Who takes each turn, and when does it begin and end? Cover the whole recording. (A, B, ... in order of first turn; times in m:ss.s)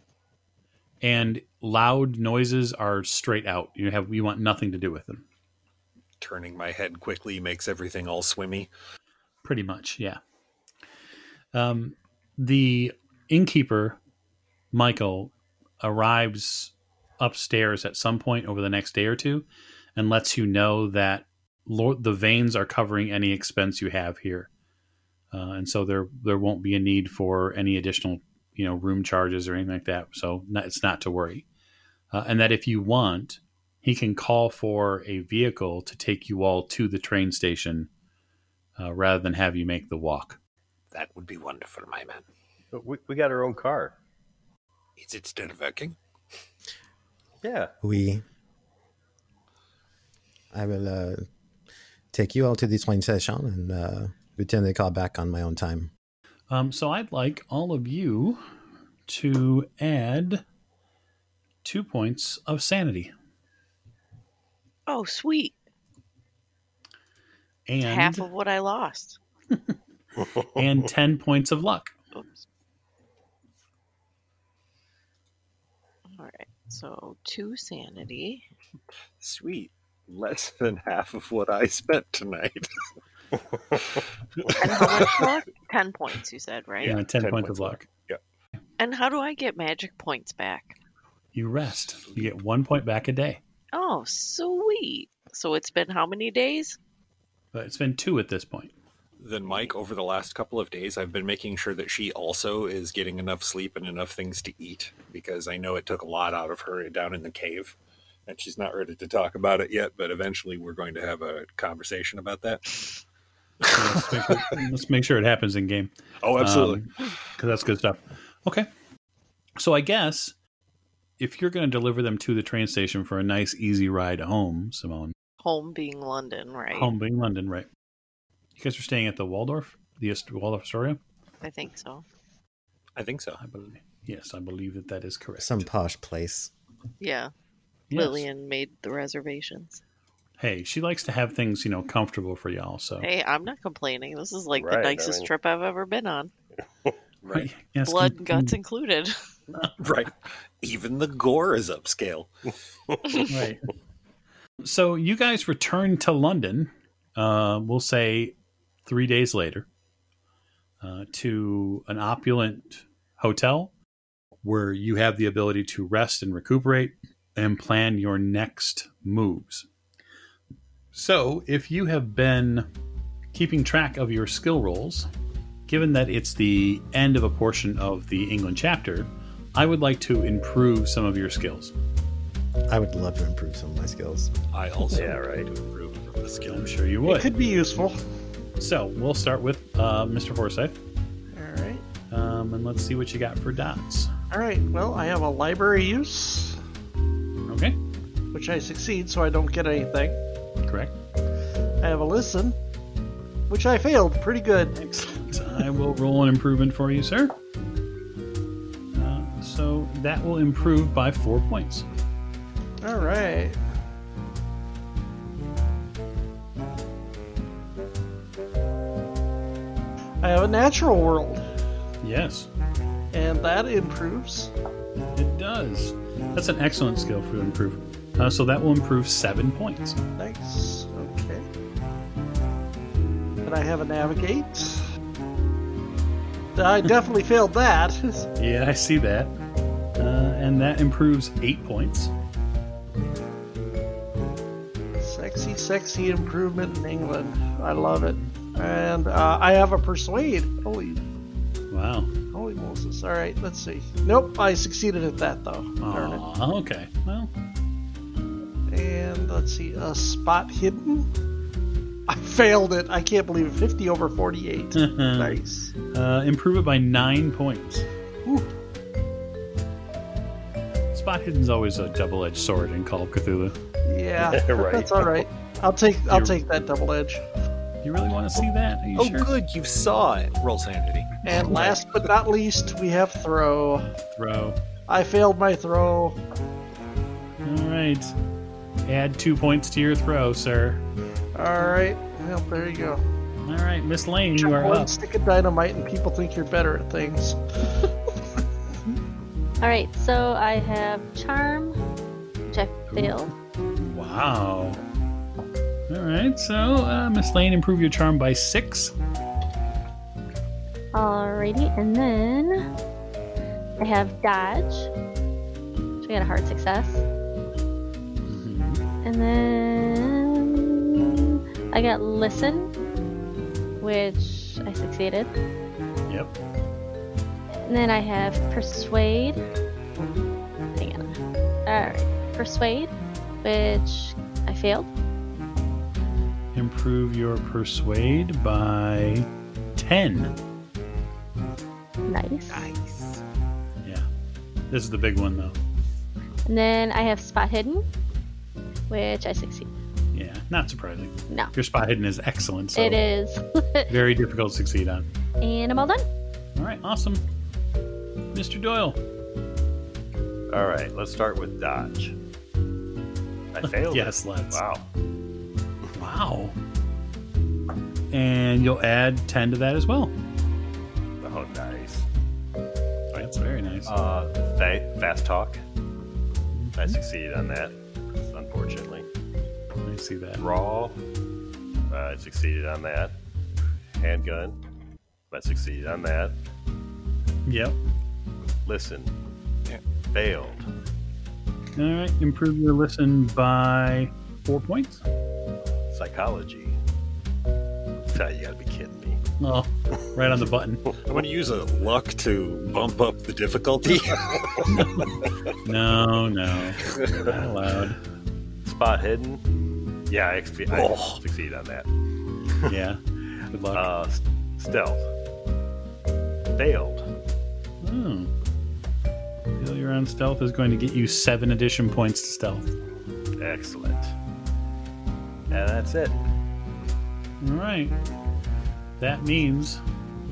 0:01.0-0:05.2 A
0:06.2-0:08.7 B
0:09.4-0:10.2 A
0:11.5-0:14.0 A
0:14.7-0:19.4 A
0:20.0-0:24.5 A
0:25.3-0:31.4 A
0:32.1-0:37.9 A
0:38.8-0:40.4 A
0:40.9-0:42.2 B
0:42.7-0:44.0 C
0:45.0-0:46.0 B
0:47.4-0:47.7 C
0:47.8-0:48.2 D
0:50.5-0:51.3 D
0:52.1-0:55.9 D
0:56.5-0:58.4 A
0:59.1-1:00.4 A
1:01.6-1:03.1 A
1:04.9-1:05.6 E
1:07.7-1:08.3 A
1:07.8-1:09.2 E
1:10.5-1:11.9 A
1:12.1-1:12.4 E
1:16.1-1:18.5 E
1:19.2-1:22.7 B
1:23.7-1:25.3 B
1:24.6-1:27.0 E
1:26.8-1:28.2 B
1:26.8-1:27.9 A
1:28.8-1:30.8 E
1:31.4-1:33.4 A
1:32.1-1:32.3 B
1:33.8-1:36.8 E
1:37.5-1:38.7 A
1:39.2-1:47.8 B
1:48.3-1:52.8 B
1:53.6-1:54.4 B
1:53.7-1:58.7 A
1:56.2-1:56.8 B
1:59.6-2:00.4 A
2:01.2-2:05.1 A
2:05.4-2:06.9 E
2:06.7-2:07.7 A
2:08.6-2:11.0 A
2:11.4-2:12.0 E
2:13.0-2:13.4 B
2:13.4-2:15.7 A
2:15.4-2:16.5 D
2:17.0-2:17.3 E
2:17.9-2:18.3 A
2:17.9-2:19.8 E
2:20.4-2:23.1 A
2:23.0-2:26.3 E
2:24.5-2:25.3 C
2:27.2-2:27.5 B
2:27.3-2:28.6 A
2:27.8-2:29.2 E
2:29.8-2:32.3 B
2:33.3-2:33.7 A
2:34.6-2:38.3 A
2:38.8-2:39.7 A
2:40.8-2:43.7 A
2:44.4-2:49.7 A
2:50.9-2:52.7 A
2:53.3-2:55.1 A
2:55.7-3:01.7 A
3:02.7-3:04.3 D
3:04.5-3:06.7 B
3:05.0-3:05.5 C
3:06.5-3:07.3 A
3:07.0-3:08.0 F
3:08.6-3:10.8 A
3:11.3-3:11.8 F
3:12.1-3:14.1 A
3:14.3-3:16.6 F
3:17.5-3:17.8 A
3:18.3-3:20.2 F
3:20.7-3:20.9 A
3:21.8-3:22.6 F
3:23.5-3:24.9 F
3:24.8-3:27.3 A
3:29.0-3:31.9 A
3:32.8-3:33.6 F
3:40.2-3:41.5 F
3:42.0-3:42.5 A
3:43.1-3:44.5 F
3:45.2-3:50.0 A
3:50.2-3:51.5 F
3:53.4-3:54.8 F
3:56.6-3:58.3 F
3:58.4-3:59.3 A
4:00.0-4:02.1 A
4:05.0-4:11.0 F
4:11.7-4:12.1 A
4:12.3-4:16.2 F
4:15.8-4:17.3 A
4:18.7-4:21.1 F
4:22.1-4:25.7 F
4:24.8-4:28.5 A
4:30.9-4:33.6 A
4:33.8-4:37.2 F
4:34.2-4:35.2 C
4:36.1-4:36.4 A
4:37.8-4:39.3 A
4:39.0-4:41.3 B
4:41.2-4:43.9 F
4:44.2-4:44.6 A
4:44.9-4:46.2 F
4:47.4-4:48.2 A
4:48.8-4:50.8 A
4:51.4-4:53.0 F
4:53.4-4:54.9 A
4:54.4-4:57.9 F
4:59.6-5:01.8 G
5:02.5-5:03.3 G
5:03.8-5:04.8 A
5:05.9-5:08.9 A
5:11.0-5:12.7 G
5:13.8-5:14.9 G
5:16.0-5:17.0 G
5:18.3-5:18.8 A
5:19.0-5:22.7 G
5:23.8-5:25.3 G
5:27.7-5:29.4 G
5:30.8-5:32.9 G
5:33.4-5:34.9 G
5:36.5-5:40.3 A
5:42.1-5:42.7 G
5:42.5-5:43.2 B
5:44.7-5:45.6 A
5:46.5-5:47.8 G
5:48.9-5:49.7 G
5:50.1-5:53.0 A
5:52.8-5:53.9 G
5:53.9-5:55.1 A
5:55.4-5:56.0 G
5:56.6-5:57.2 A
5:58.3-5:59.0 A
6:00.5-6:02.2 C
6:03.5-6:04.9 C
6:03.6-6:04.6 A
6:06.0-6:06.6 A
6:08.1-6:10.1 A
6:11.2-6:12.1 C
6:13.1-6:13.9 A
6:13.9-6:15.6 C
6:16.5-6:17.0 A
6:16.8-6:17.8 C
6:18.3-6:19.1 C
6:19.8-6:20.4 A
6:20.4-6:21.0 C
6:21.9-6:23.2 C
6:24.0-6:24.6 C
6:25.3-6:26.4 C
6:27.5-6:27.8 A
6:28.7-6:29.1 C
6:30.1-6:30.6 C
6:31.8-6:35.0 A
6:35.9-6:36.8 C
6:38.1-6:39.2 C
6:39.4-6:40.8 A
6:41.1-6:45.4 B
6:45.6-6:48.0 A
6:46.8-6:47.3 B
6:47.1-6:47.4 C
6:48.7-6:49.4 C
6:50.1-6:51.9 C
6:50.7-6:51.2 B
6:52.7-6:53.0 A
6:53.5-6:53.9 A
6:53.7-6:55.1 C
6:56.6-6:57.1 C
6:57.8-6:58.3 A
6:59.6-7:02.7 A
7:03.4-7:04.1 C
7:05.5-7:06.2 C
7:07.4-7:08.0 A
7:09.0-7:09.8 A